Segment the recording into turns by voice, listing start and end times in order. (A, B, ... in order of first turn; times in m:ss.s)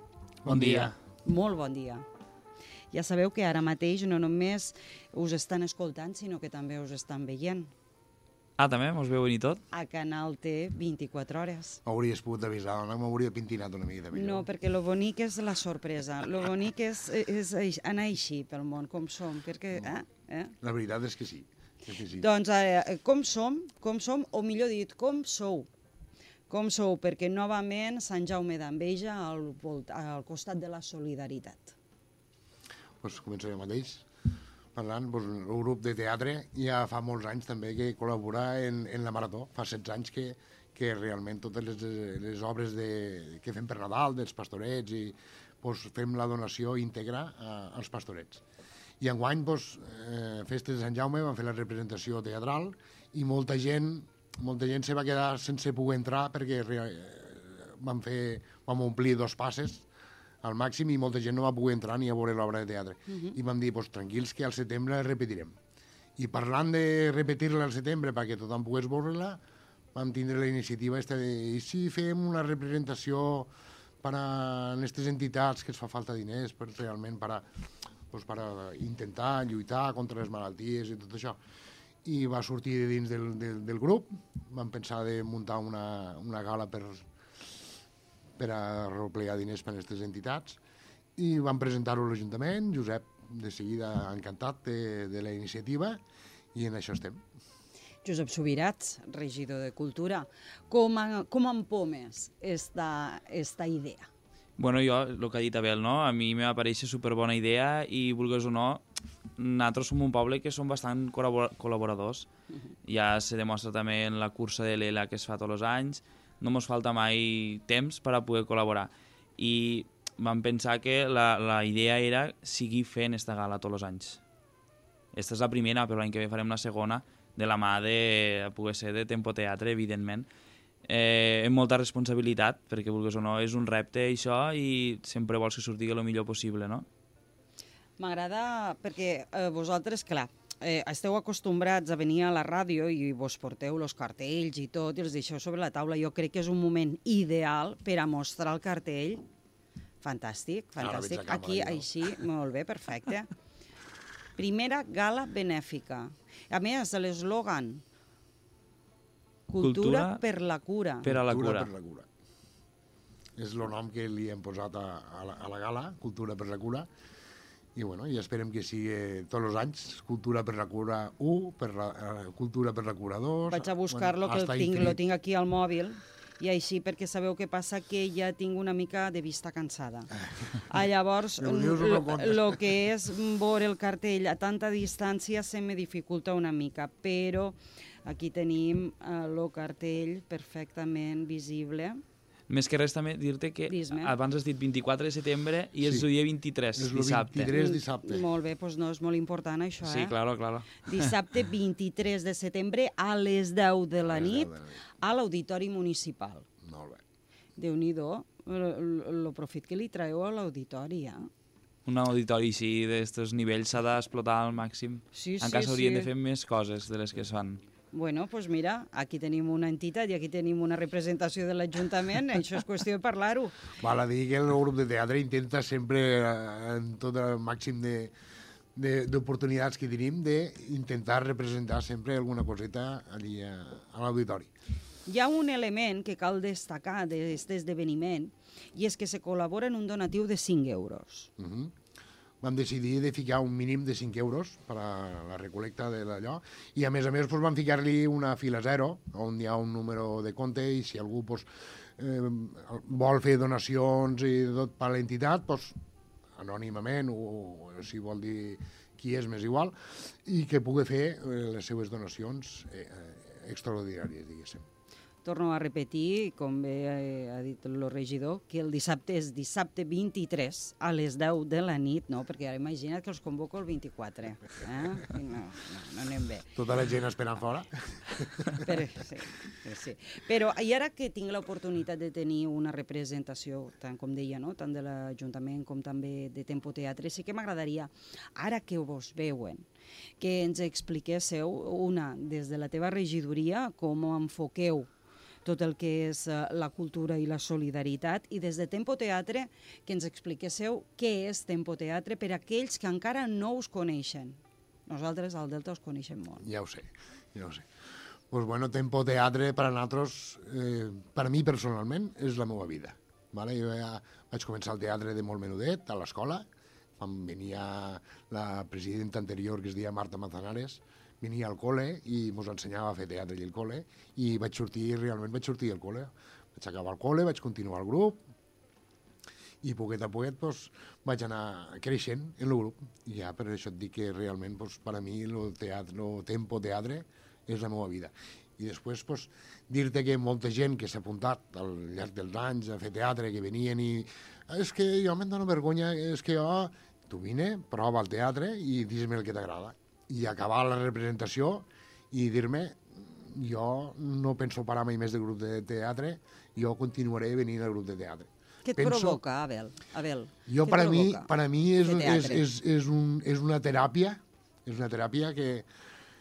0:00.4-0:00.9 A
0:00.4-0:01.0 B
0:01.2-0:02.0 C
0:02.9-0:07.7 C
0:08.6-0:09.6 B
0:09.7-0:11.8 C
0:11.8-0:14.5 A
0:14.1-0:20.5 C
0:20.6-0:22.3 A
0:22.2-0:25.7 C
0:26.5-0:31.8 C
0:33.0-0:34.0 A
0:34.7-0:48.4 A
0:49.0-0:59.8 A
1:00.4-1:05.5 A
1:03.1-1:03.4 C
1:06.2-1:09.4 A
1:09.9-1:13.5 A
1:14.0-1:17.4 A
1:18.1-1:21.4 A
1:22.0-1:27.0 A
1:28.4-1:30.6 A
1:31.2-1:36.0 A
1:36.5-1:37.2 A
1:38.0-1:44.1 C
1:44.6-1:48.8 B
1:49.4-1:52.3 B
1:52.8-2:04.2 B
2:05.1-2:10.3 B
2:10.8-2:16.8 B
2:18.0-2:29.2 C
2:30.0-2:33.3 C
2:30.8-2:31.9 A
2:34.4-2:37.8 C
2:39.5-2:41.1 C
2:39.6-2:40.2 B
2:41.0-2:41.7 B
2:41.0-2:42.0 A
2:43.4-2:46.9 A
2:47.7-2:55.0 A
2:53.5-3:12.0 C
3:01.4-3:02.8 A
3:12.5-3:17.5 B
3:13.7-3:14.1 C
3:15.8-3:16.1 A
3:16.7-3:18.3 A
3:17.5-3:20.1 C
3:19.8-3:21.1 B
3:20.8-3:26.5 C
3:24.0-3:24.8 A
3:26.6-3:27.0 A
3:27.6-3:31.3 C
3:31.8-3:37.6 B
3:35.1-3:36.1 C
3:37.9-3:43.6 C
3:43.8-3:48.1 A
3:48.8-3:54.5 A
3:55.0-4:01.3 C
4:01.4-4:01.7 A
4:02.4-4:15.7 A
4:16.4-4:24.6 A
4:25.2-4:36.5 C
4:36.5-4:38.7 A
4:38.4-4:49.6 C
4:50.2-4:54.9 C
4:55.4-5:06.4 C
5:06.4-5:07.6 A
5:08.3-5:16.4 A
5:17.0-5:28.2 A
5:29.6-5:59.2 A
5:58.6-6:02.4 C
6:00.5-6:05.6 A